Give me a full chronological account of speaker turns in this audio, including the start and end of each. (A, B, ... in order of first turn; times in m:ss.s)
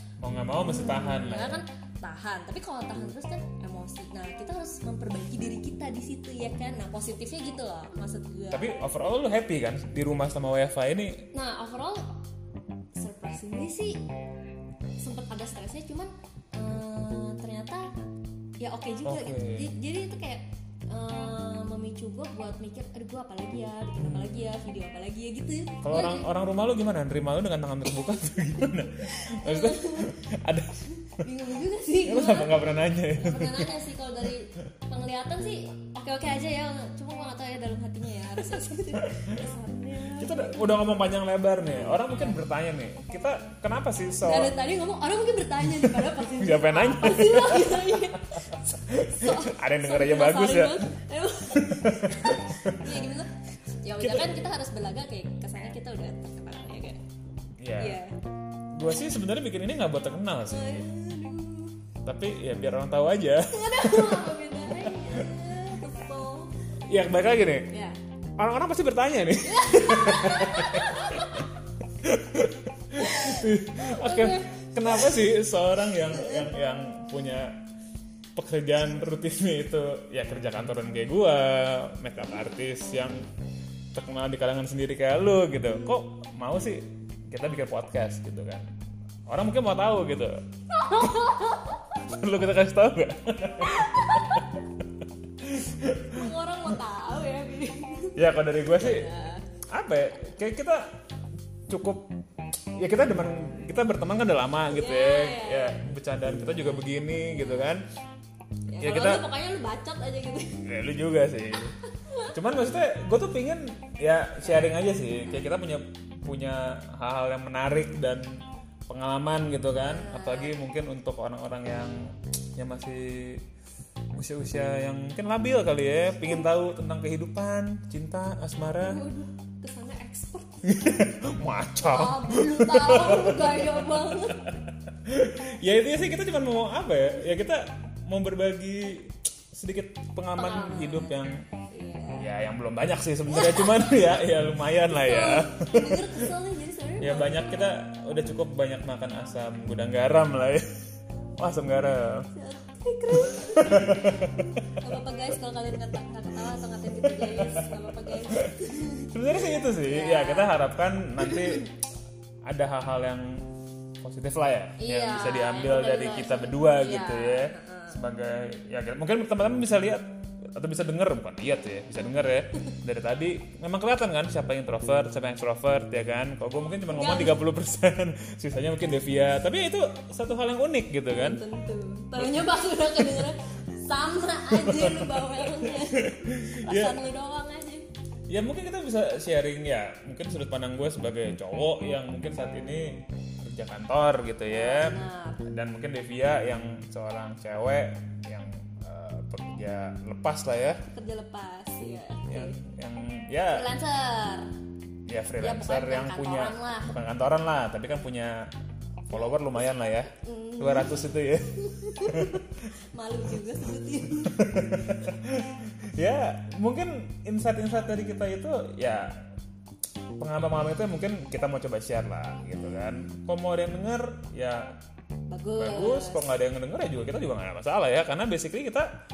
0:00.2-0:01.6 A
0:00.4-0:08.7 B
0:08.5-0:11.3 A
0:11.3-0:12.1 B
0:12.9-0:14.0 B
0:15.0-0:17.9 B
0:18.6-0:26.3 B
0:19.0-0:19.7 A
0:24.0-0:24.4 A
0:25.8-0:31.2 A
0:29.0-0:30.2 B
0:30.8-0:40.9 B
0:32.0-0:33.8 A
0:39.0-0:39.4 A
0:40.1-0:44.5 A
0:44.2-0:57.0 B
0:45.6-0:50.9 A
0:51.5-0:53.1 A
0:54.0-0:54.4 A
0:57.6-0:58.0 A
0:57.8-0:58.2 B
0:58.7-1:00.9 A
1:00.5-1:01.8 B
1:02.0-1:05.4 A
1:03.4-1:06.8 B
1:06.8-1:07.7 A
1:07.7-1:08.0 B
1:08.4-1:11.5 A
1:09.4-1:11.5 B
1:12.0-1:17.6 A
1:12.9-1:15.4 B
1:15.9-1:16.8 B
1:18.3-1:23.3 A
1:23.9-1:28.7 A
1:29.3-1:34.6 A
1:30.7-1:31.9 B
1:33.6-1:34.6 B
1:35.4-1:36.3 A
1:36.1-1:39.5 B
1:38.2-1:39.1 A
1:39.7-1:41.0 A
1:41.7-1:42.1 A
1:42.8-1:47.8 A
1:44.7-1:45.8 B
1:47.2-1:47.7 B
1:48.7-1:50.7 B
1:48.8-1:49.3 A
1:50.6-1:51.8 A
1:51.6-1:52.4 B
1:52.3-2:03.4 A
1:54.4-1:55.5 B
1:59.8-2:00.6 B
2:04.1-2:09.0 A
2:08.8-2:11.0 B
2:10.6-2:21.4 A
2:11.8-2:14.5 B
2:20.4-2:21.1 B
2:21.7-2:22.3 B
2:22.2-2:26.3 A
2:23.3-2:24.1 B
2:24.9-2:27.7 B
2:27.0-2:30.7 A
2:31.4-2:32.3 A
2:32.3-2:40.6 B
2:33.1-2:34.8 A
2:37.0-2:41.7 A
2:41.2-2:41.6 B
2:42.4-2:43.5 A
2:44.0-3:01.4 A
2:44.8-2:48.0 B
2:56.9-2:57.4 B
3:01.1-3:07.8 B
3:02.2-3:03.3 A
3:04.5-3:07.0 A
3:08.3-3:20.8 A
3:14.5-3:15.4 B
3:20.9-3:22.6 B
3:22.3-3:23.7 A
3:23.5-3:24.5 B
3:25.0-3:28.5 A
3:25.4-3:27.0 B
3:29.1-3:32.4 A
3:29.1-3:31.0 B
3:31.5-3:35.1 B
3:34.3-3:39.3 A
3:40.2-3:44.7 A
3:45.3-3:46.2 B
3:45.6-3:48.9 A